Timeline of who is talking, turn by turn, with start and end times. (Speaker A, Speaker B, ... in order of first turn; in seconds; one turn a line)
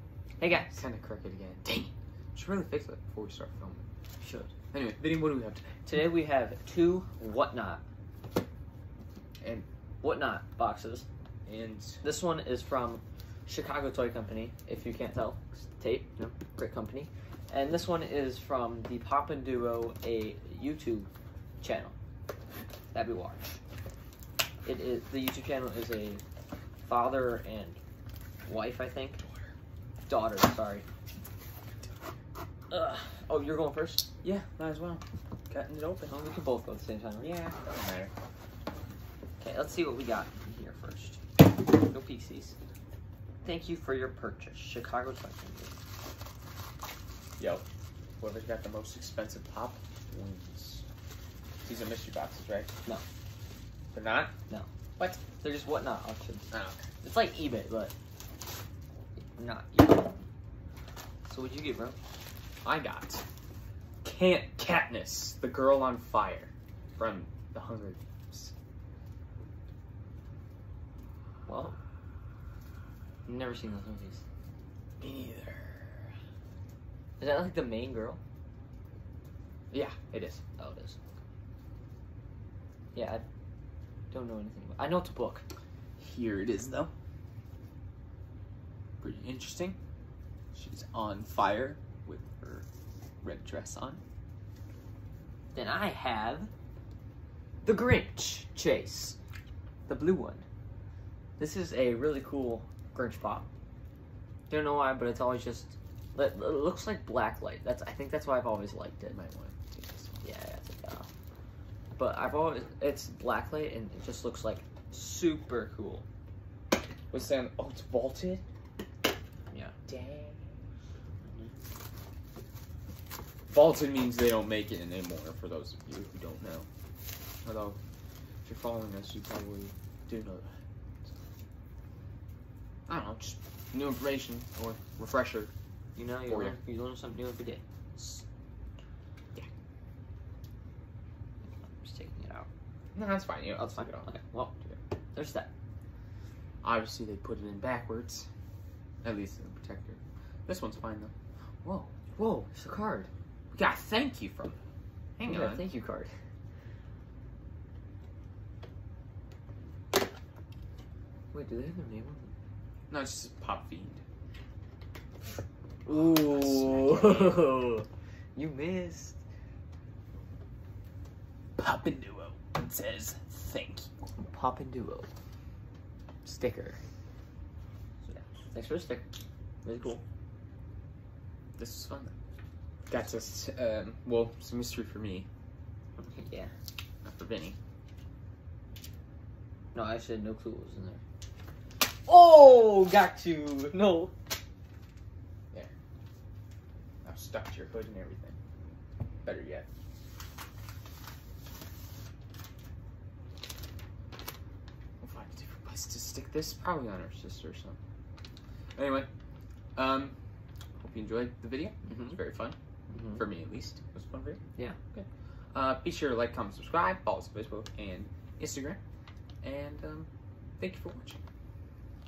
Speaker A: 0.4-0.8
Speaker B: 0.5-3.9
Speaker A: 4.2-4.5
Speaker B: 4.7-5.8
Speaker A: 5.8-7.8
Speaker B: 9.4-9.7
Speaker A: 10.0-11.1
Speaker B: 11.5-12.0
Speaker A: 12.0-21.1
Speaker A: 21.6-21.9
Speaker A: 22.9-23.6
Speaker A: 24.6-26.2
Speaker A: 26.8-27.8
Speaker A: 28.5-29.2
Speaker A: 30.1-30.9
Speaker A: 32.7-34.1
Speaker B: 34.2-36.2
Speaker A: 36.1-37.4
Speaker B: 37.2-38.1
Speaker A: 39.4-42.5
Speaker A: 43.4-45.7
Speaker B: 47.4-47.6
Speaker B: 48.2-50.8
Speaker B: 51.6-52.7
Speaker B: 53.9-54.3
Speaker B: 55.0-55.2
Speaker A: 55.4-56.5
Speaker B: 56.5-56.9
Speaker A: 57.0-57.9
Speaker A: 59.2-60.2
Speaker A: 61.3-62.0
Speaker B: 62.6-63.2
Speaker B: 64.0-68.5
Speaker A: 71.5-71.8
Speaker A: 73.3-74.2
Speaker B: 75.0-75.9
Speaker A: 77.2-78.2
Speaker B: 79.7-80.4
Speaker A: 80.6-81.0
Speaker A: 82.9-83.2
Speaker A: 84.1-85.5
Speaker B: 86.0-86.9
Speaker B: 89.0-89.8
Speaker B: 90.5-92.7
Speaker B: 93.2-94.0
Speaker A: 95.5-96.5
Speaker A: 97.6-99.2
Speaker A: 99.9-100.5
Speaker A: 101.4-103.5
Speaker A: 104.5-109.2
Speaker B: 109.1-110.3
Speaker A: 110.2-111.1
Speaker A: 112.0-116.1
Speaker B: 117.1-118.4
Speaker A: 119.5-119.8
Speaker B: 119.9-120.5
Speaker A: 121.2-121.5
Speaker B: 123.5-126.7
Speaker B: 127.4-127.8
Speaker B: 128.4-130.5
Speaker B: 132.9-135.5
Speaker A: 136.0-137.6
Speaker B: 136.2-136.6
Speaker B: 138.0-138.2
Speaker A: 141.8-142.5
Speaker B: 142.9-144.1
Speaker A: 143.6-144.6
Speaker A: 145.1-145.5
Speaker B: 146.6-148.3
Speaker B: 149.0-151.1
Speaker B: 151.6-152.0
Speaker A: 152.2-153.1
Speaker B: 153.5-154.6
Speaker B: 155.2-155.7
Speaker A: 155.2-156.1
Speaker A: 161.3-162.3
Speaker B: 162.9-164.0
Speaker A: 165.8-169.2
Speaker B: 165.9-167.5
Speaker B: 171.6-173.9
Speaker A: 174.2-175.1
Speaker A: 176.3-176.8
Speaker A: 178.1-179.1
Speaker A: 179.6-180.0
Speaker B: 181.6-182.1
Speaker B: 182.9-185.3
Speaker A: 186.0-186.5
Speaker B: 187.0-187.6
Speaker A: 189.7-191.0
Speaker A: 192.1-194.1
Speaker B: 197.0-198.4
Speaker B: 199.2-199.7
Speaker B: 205.0-207.8
Speaker B: 208.8-209.1
Speaker B: 209.8-210.1
Speaker B: 210.8-212.6
Speaker A: 211.9-212.2
Speaker A: 212.9-213.2
Speaker B: 213.1-214.4
Speaker B: 214.9-218.8
Speaker B: 219.4-221.2